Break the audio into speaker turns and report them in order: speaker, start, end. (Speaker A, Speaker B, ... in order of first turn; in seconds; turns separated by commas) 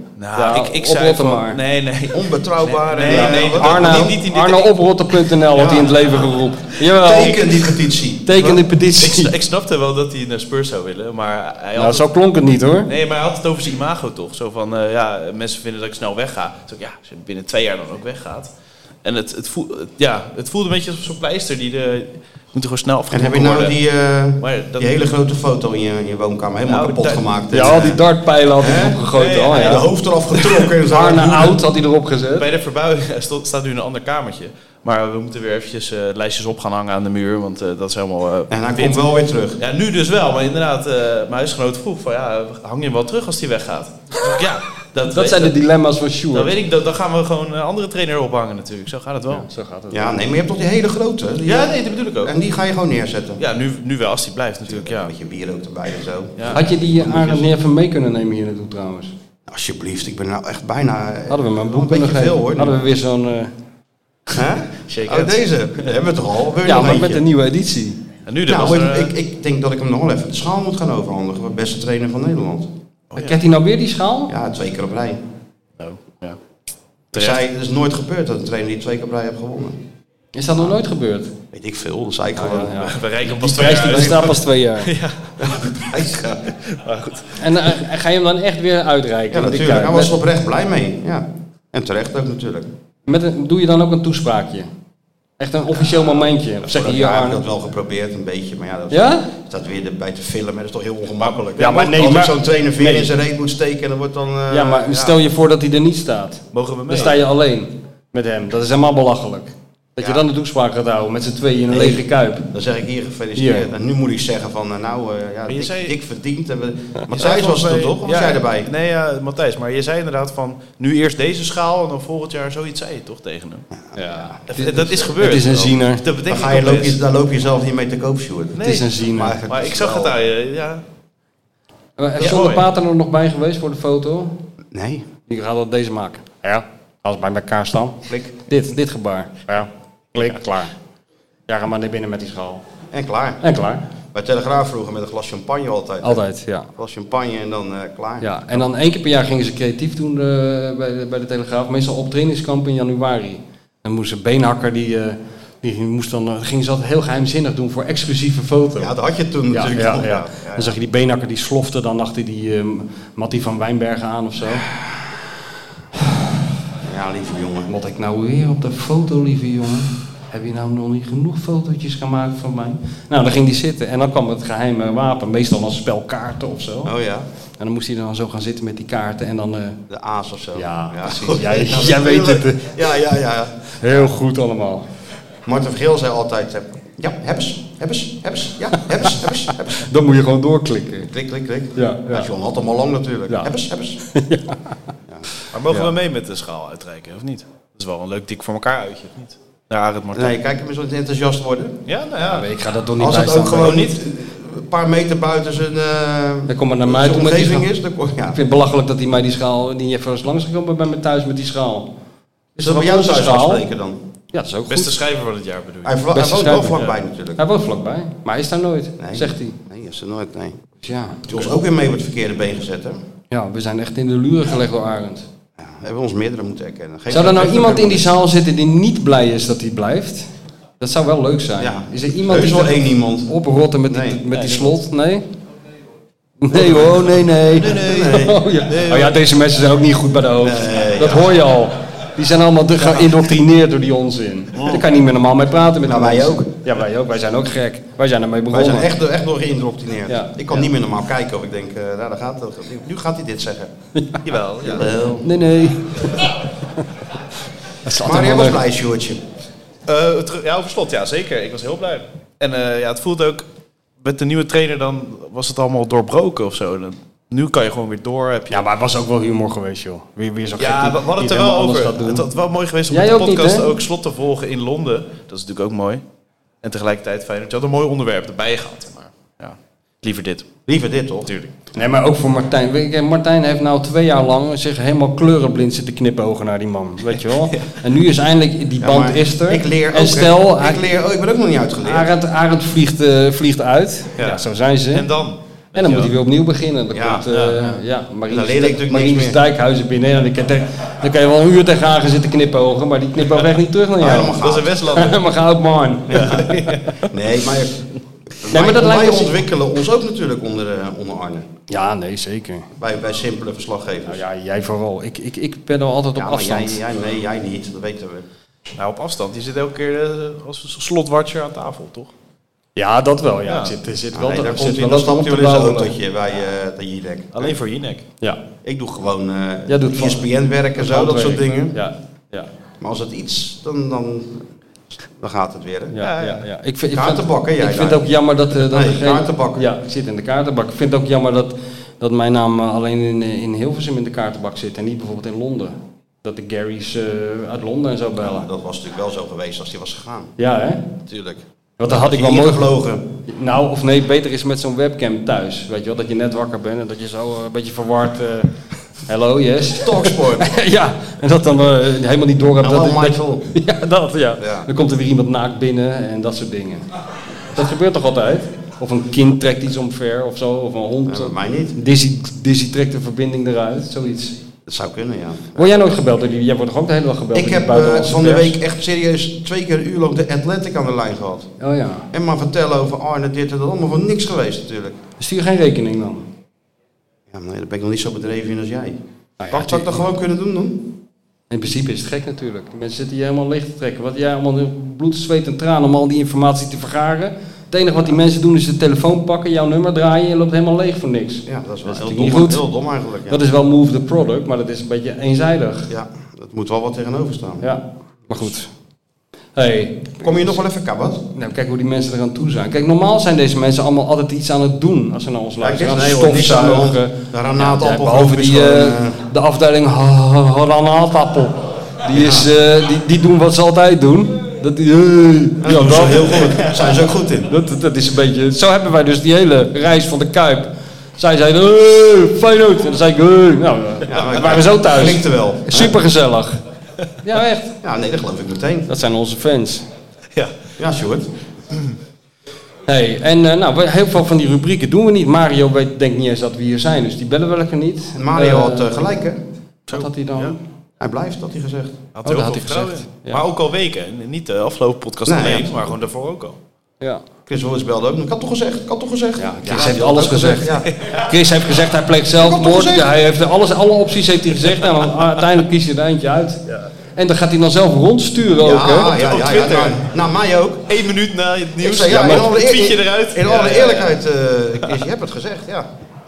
Speaker A: 0.2-4.8, Speaker B: 0.3-1.6, Speaker C: 2.1-4.2, Speaker B: 3.0-7.4, Speaker C: 5.5-5.9, Speaker C: 6.9-8.6, Speaker A: 7.1-7.5, Speaker B: 8.2-9.3, Speaker A: 9.0-12.1, Speaker B: 11.8-12.9, Speaker A: 12.8-18.5, Speaker A: 19.0-23.8, Speaker C: 23.1-28.0, Speaker A: 24.4-24.9, Speaker A: 26.7-27.2, Speaker B: 27.5-29.8, Speaker C: 28.6-31.5, Speaker A: 29.1-30.7, Speaker B: 30.9-32.5, Speaker A: 32.4-39.0, Speaker C: 38.5-39.6, Speaker A: 39.6-45.5, Speaker B: 45.1-46.5, Speaker A: 46.3-49.5, Speaker B: 49.3-50.2, Speaker C: 49.9-53.4, Speaker A: 51.4-52.3, Speaker A: 53.4-55.1, Speaker C: 54.6-57.4, Speaker B: 56.5-59.1, Speaker C: 59.5-62.8, Speaker B: 61.3-63.5, Speaker C: 64.3-67.2, Speaker A: 64.9-65.9, Speaker B: 66.6-68.0, Speaker A: 68.2-69.1, Speaker C: 68.5-72.7, Speaker A: 73.1-73.4, Speaker B: 73.2-74.3, Speaker C: 74.3-75.2, Speaker A: 75.8-76.4, Speaker A: 77.1-77.4, Speaker C: 77.1-79.8, Speaker B: 80.3-81.3, Speaker C: 81.5-82.9, Speaker B: 82.3-84.9, Speaker A: 82.8-87.8, Speaker C: 83.7-84.2, Speaker C: 85.4-86.4, Speaker B: 87.4-90.2, Speaker C: 89.3-92.7, Speaker B: 93.1-94.7, Speaker B: 95.4-97.4, Speaker C: 95.8-105.2, Speaker B: 98.9-99.3, Speaker B: 101.6-103.1, Speaker B: 104.5-112.5, Speaker A: 106.5-107.2, Speaker C: 110.0-110.2, Speaker C: 111.7-118.7, Speaker B: 113.3-113.7, Speaker A: 115.5-115.9, Speaker A: 117.1-123.7, Speaker C: 123.8-124.4, Speaker B: 123.9-126.0, Speaker A: 124.5-127.0, Speaker C: 126.3-130.1, Speaker A: 128.6-128.9, Speaker B: 128.6-129.4, Speaker A: 129.5-130.8, Speaker B: 132.0-134.3, Speaker A: 132.2-132.6, Speaker C: 134.7-135.1, Speaker B: 135.3-140.7, Speaker C: 138.0-138.3, Speaker B: 141.5-142.6, Speaker C: 142.9-143.4, Speaker B: 143.4-143.8, Speaker C: 144.1-146.2, Speaker B: 146.0-146.7, Speaker C: 146.8-148.3, Speaker B: 148.2-158.9, Speaker C: 158.8-160.8, Speaker B: 159.5-164.7, Speaker C: 166.8-167.7, Speaker B: 167.7-176.9, Speaker C: 176.8-177.3, Speaker B: 177.6-179.8, Speaker C: 179.9-184.1, Speaker B: 180.6-182.7, Speaker B: 183.8-184.9, Speaker C: 185.4-189.9, Speaker B: 189.8-191.1, Speaker C: 191.1-194.0, Speaker B: 191.8-192.3, Speaker B: 194.1-194.7, Speaker C: 195.1-195.8, Speaker A: 195.5-200.3, Speaker C: 200.1-201.8, Speaker A: 201.9-202.5, Speaker B: 202.2-203.8, Speaker C: 203.0-208.4, Speaker A: 203.6-203.9, Speaker B: 206.5-207.7, Speaker B: 208.3-211.9, Speaker B: 212.6-213.7, Speaker C: 212.6-214.0, Speaker B: 214.3-214.9, Speaker A: 214.7-216.0, Speaker C: 215.8-217.4, Speaker B: 216.1-216.8, Speaker A: 216.7-217.0, Speaker B: 217.4-219.6, Speaker C: 219.0-220.6, Speaker B: 220.8-221.2, Speaker C: 221.2-223.0, Speaker B: 223.3-225.2, Speaker C: 225.6-228.1, Speaker B: 227.1-230.3, Speaker B: 230.8-235.2, Speaker C: 231.6-233.3, Speaker C: 233.9-234.2, Speaker A: 234.3-234.7, Speaker B: 236.4-248.9, Speaker C: 236.5-238.4, Speaker A: 237.5-239.2, Speaker C: 240.4-241.3, Speaker C: 242.7-243.3, Speaker C: 245.8-246.5, Speaker C: 248.5-253.7, Speaker B: 250.1-250.7, Speaker A: 254.2-254.9, Speaker C: 254.6-255.3, Speaker B: 255.2-256.3, Speaker B: 257.8-258.6, Speaker C: 258.0-259.2, Speaker A: 259.9-263.4, Speaker A: 264.0-268.6, Speaker B: 268.5-272.2, Speaker A: 270.6-276.0, Speaker B: 272.9-273.6, Speaker A: 276.6-280.5, Speaker C: 280.7-281.3, Speaker A: 281.3-281.5, Speaker B: 281.8-290.8, Speaker A: 287.1-287.7, Speaker C: 288.8-292.1, Speaker B: 291.8-295.1, Speaker A: 294.2-296.1, Speaker B: 295.7-304.4, Speaker C: 296.9-297.2, Speaker A: 297.3-297.8, Speaker C: 298.3-299.4, Speaker C: 304.0-304.8, Speaker A: 304.4-305.2, Speaker B: 304.9-306.6, Speaker C: 306.1-307.8, Speaker A: 306.1-307.0, Speaker C: 308.4-311.4, Speaker B: 308.5-309.4, Speaker B: 311.7-312.7, Speaker C: 312.8-314.2, Speaker B: 314.1-316.8, Speaker C: 316.1-318.2, Speaker A: 318.8-322.1, Speaker B: 322.8-325.9, Speaker A: 323.4-323.7, Speaker C: 324.1-327.5, Speaker A: 327.3-328.0, Speaker C: 328.6-331.8, Speaker B: 329.7-330.2, Speaker B: 330.8-332.5, Speaker C: 332.8-334.5, Speaker C: 335.1-335.9, Speaker B: 335.9-348.5, Speaker A: 336.0-336.4, Speaker C: 336.9-339.6, Speaker C: 348.2-350.3, Speaker B: 350.4-350.8, Speaker C: 351.1-353.0, Speaker B: 351.8-352.7, Speaker B: 353.3-358.5, Speaker B: 359.1-366.9, Speaker C: 359.7-360.5, Speaker C: 362.6-363.5, Speaker C: 364.4-364.7, Speaker B: 367.5-374.4, Speaker C: 371.1-371.8, Speaker C: 374.7-375.9, Speaker B: 375.6-378.5, Speaker C: 377.3-381.5, Speaker B: 381.6-382.1, Speaker C: 382.1-384.9, Speaker B: 385.2-386.2, Speaker C: 387.3-389.0, Speaker B: 389.4-390.0, Speaker C: 389.5-390.9, Speaker B: 391.5-402.6, Speaker C: 401.4-403.4, Speaker B: 403.3-405.9, Speaker C: 405.9-407.6, Speaker B: 407.6-408.7, Speaker B: 409.6-410.6, Speaker C: 410.2-411.2, Speaker B: 411.3-426.6, Speaker C: 415.6-419.2, Speaker C: 422.1-422.5, Speaker C: 425.6-427.5, Speaker B: 427.5-436.6, Speaker C: 434.1-435.9, Speaker B: 437.2-437.7, Speaker C: 437.8-438.9, Speaker B: 438.9-439.8, Speaker C: 440.8-441.3, Speaker B: 442.9-449.0, Speaker C: 448.1-449.4, Speaker A: 449.9-450.5, Speaker B: 449.9-450.6, Speaker C: 451.0-452.0, Speaker A: 452.1-456.6, Speaker B: 452.2-453.4, Speaker C: 455.2-455.9, Speaker C: 457.5-460.9, Speaker B: 459.4-466.6, Speaker A: 460.9-461.3, Speaker C: 462.4-463.1, Speaker B: 467.1-469.1, Speaker C: 468.6-470.9, Speaker A: 468.8-470.0, Speaker A: 470.9-474.2, Speaker C: 471.8-475.9, Speaker B: 472.1-472.4